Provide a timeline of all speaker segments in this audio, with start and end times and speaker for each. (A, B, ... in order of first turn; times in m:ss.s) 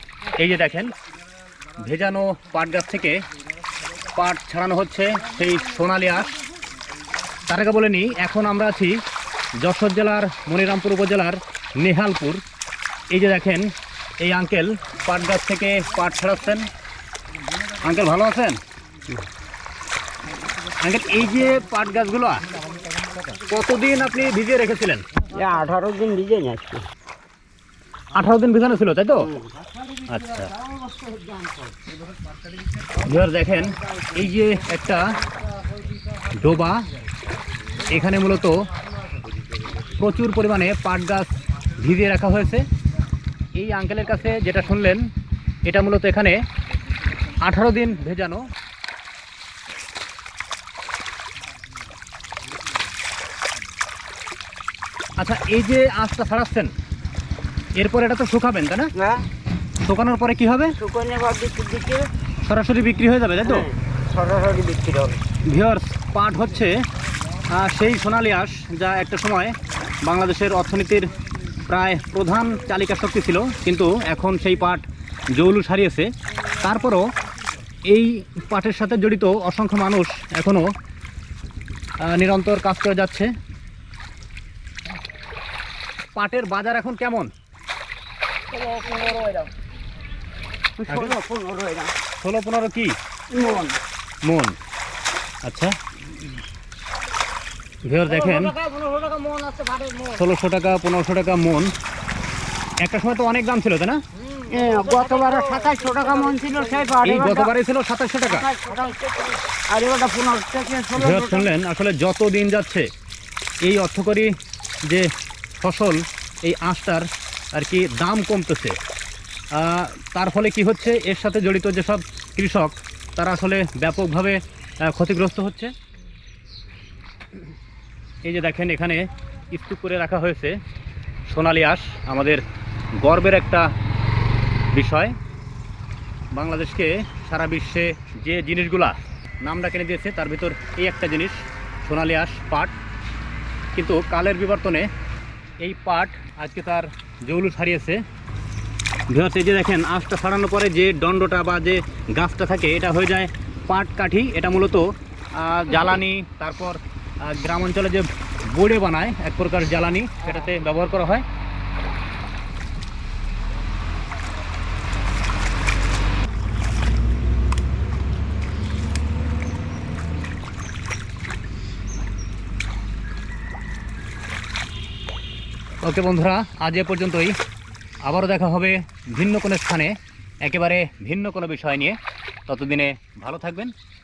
0:00.4-0:00.9 A
0:01.8-0:03.2 A
0:04.1-0:06.3 A
0:07.5-0:09.0 A
0:09.6-0:12.4 A
0:13.1-0:16.7 A
0:17.7-0:18.6 A
0:20.8-0:22.5 A
0:23.4-0:25.1 A
0:25.3-0:26.8 B
0:28.1-0:29.3 A
0:29.2-0:29.5 B
0:30.1-0:30.5 A
0:30.6-0:31.7 B
0:33.0-0:35.1 A
0:36.4-0:36.8 A
0:37.8-0:38.6 A
0:40.0-0:42.6 A
0:43.6-0:45.0 A
0:45.6-0:46.4 A
0:47.4-0:48.4 A
0:55.2-0:56.7 A
0:57.8-0:58.9 A
0:59.0-0:59.2 B
0:59.8-1:00.7 A
1:00.8-1:02.1 B
1:02.4-1:03.7 A
1:03.4-1:05.2 B
1:05.4-1:06.7 A
1:07.5-1:11.1 A
1:11.7-1:16.1 A
1:16.6-1:17.1 A
1:17.9-1:20.7 A
1:22.0-1:23.3 A
1:26.1-1:27.3 A
1:28.5-1:29.5 B
1:30.8-1:31.9 B
1:30.9-1:31.2 A
1:32.2-1:32.9 A
1:33.3-1:33.8 B
1:34.2-1:34.6 A
1:35.4-1:35.7 A
1:37.8-1:38.6 A
1:38.1-1:40.1 B
1:40.1-1:41.7 A
1:42.8-1:44.0 A
1:44.5-1:47.5 B
1:47.0-1:48.5 A
1:48.2-1:51.5 B
1:51.0-1:52.8 A
1:53.6-1:54.3 A
1:55.6-1:58.8 A
1:59.5-2:05.7 A
2:08.2-2:10.6 A
2:11.3-2:12.4 A
2:13.0-2:13.7 A
2:14.7-2:15.1 A
2:16.3-2:22.7 A
2:23.7-2:24.9 A
2:25.6-2:28.0 A
2:29.1-2:41.2 A
2:55.8-2:57.3 A
2:58.0-3:03.7 A